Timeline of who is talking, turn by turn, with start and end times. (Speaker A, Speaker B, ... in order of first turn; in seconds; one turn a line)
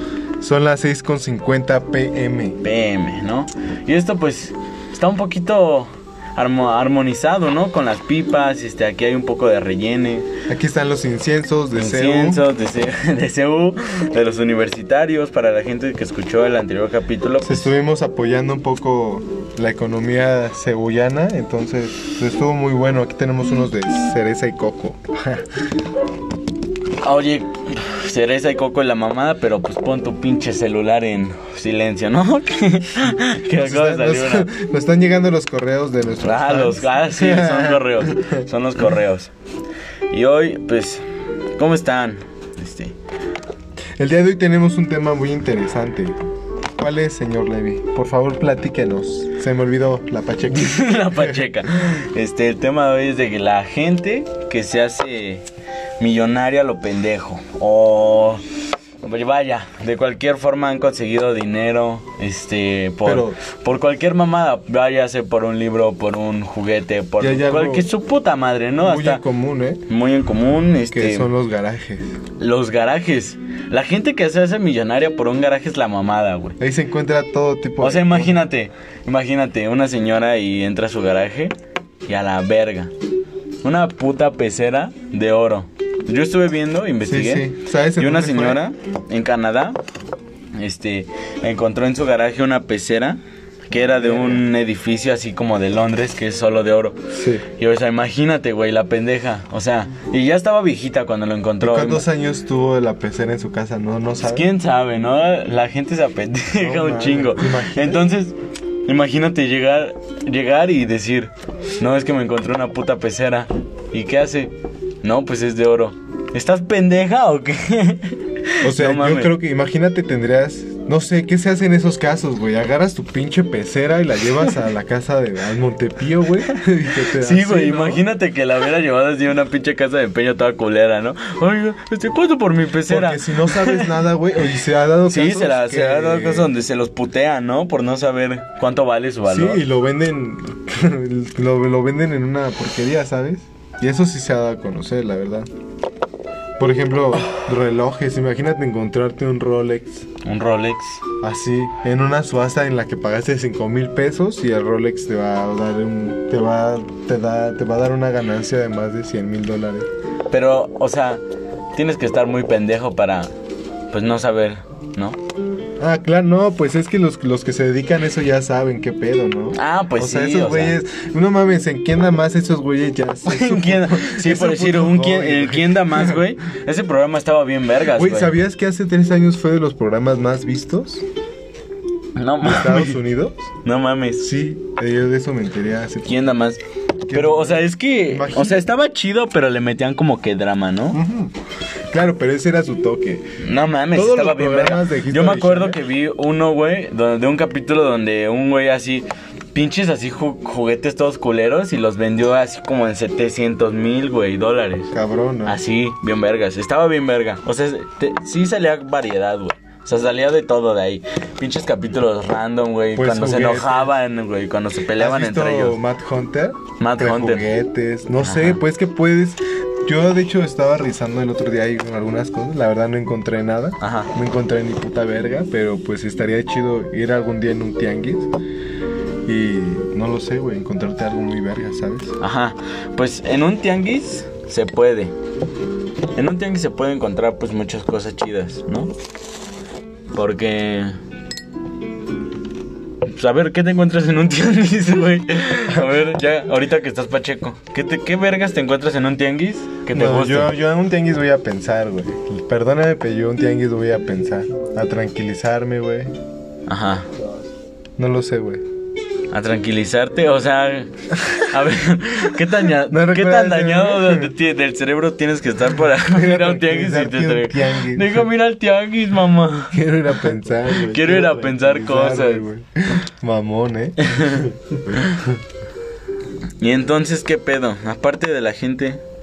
Speaker A: 0.4-2.6
Speaker B: 2.6-10.3
Speaker A: 10.5-12.4
Speaker B: 11.8-17.7
Speaker A: 17.4-25.4
Speaker B: 27.0-34.5
Speaker A: 33.5-38.4
Speaker B: 36.2-39.3
Speaker B: 40.1-41.0
Speaker B: 41.6-43.0
Speaker A: 44.0-46.2
Speaker A: 46.8-51.5
Speaker B: 50.5-55.5
Speaker B: 56.0-58.4
Speaker B: 59.0-69.2
Speaker A: 63.0-63.4
Speaker A: 67.2-67.9
Speaker A: 68.8-69.8
Speaker B: 69.9-71.3
Speaker A: 70.9-72.1
Speaker B: 72.4-76.6
Speaker A: 76.6-78.4
Speaker B: 77.8-81.5
Speaker B: 82.1-82.9
Speaker B: 83.6-89.8
Speaker A: 87.0-88.6
Speaker B: 90.5-97.0
Speaker A: 94.0-94.5
Speaker A: 97.1-97.5
Speaker B: 97.6-102.1
Speaker A: 101.6-104.5
Speaker B: 104.2-119.3
Speaker A: 106.6-108.1
Speaker A: 118.6-128.0
Speaker B: 127.1-134.0
Speaker A: 132.8-136.5
Speaker B: 135.1-139.6
Speaker A: 139.3-145.5
Speaker A: 146.6-150.1
Speaker B: 150.2-151.0
Speaker A: 151.2-159.9
Speaker B: 160.3-161.2
Speaker B: 161.7-163.3
Speaker B: 163.9-165.2
Speaker A: 165.8-176.3
Speaker B: 169.6-170.8
Speaker B: 173.3-178.3
Speaker A: 177.8-181.0
Speaker B: 182.2-183.0
Speaker A: 182.4-183.5
Speaker B: 183.6-184.3
Speaker A: 184.2-186.3
Speaker B: 186.1-191.0
Speaker A: 187.1-188.7
Speaker A: 190.9-191.3
Speaker A: 191.9-193.4
Speaker B: 193.4-204.9
Speaker A: 193.9-195.8
Speaker A: 204.9-205.6
Speaker B: 205.5-215.8
Speaker A: 212.9-213.9
Speaker A: 214.9-228.3
Speaker B: 216.8-217.5
Speaker B: 218.2-218.6
Speaker B: 223.8-224.1
Speaker A: 229.2-232.2
Speaker B: 232.2-235.1
Speaker B: 236.2-238.9
Speaker B: 240.1-241.0
Speaker B: 243.1-250.6
Speaker A: 249.9-256.1
Speaker B: 256.7-257.1
Speaker A: 258.0-258.6
Speaker B: 259.3-269.8
Speaker A: 262.8-264.3
Speaker A: 266.0-268.2
Speaker A: 269.7-275.4
Speaker B: 270.7-272.4
Speaker B: 274.0-275.2
Speaker B: 276.6-279.0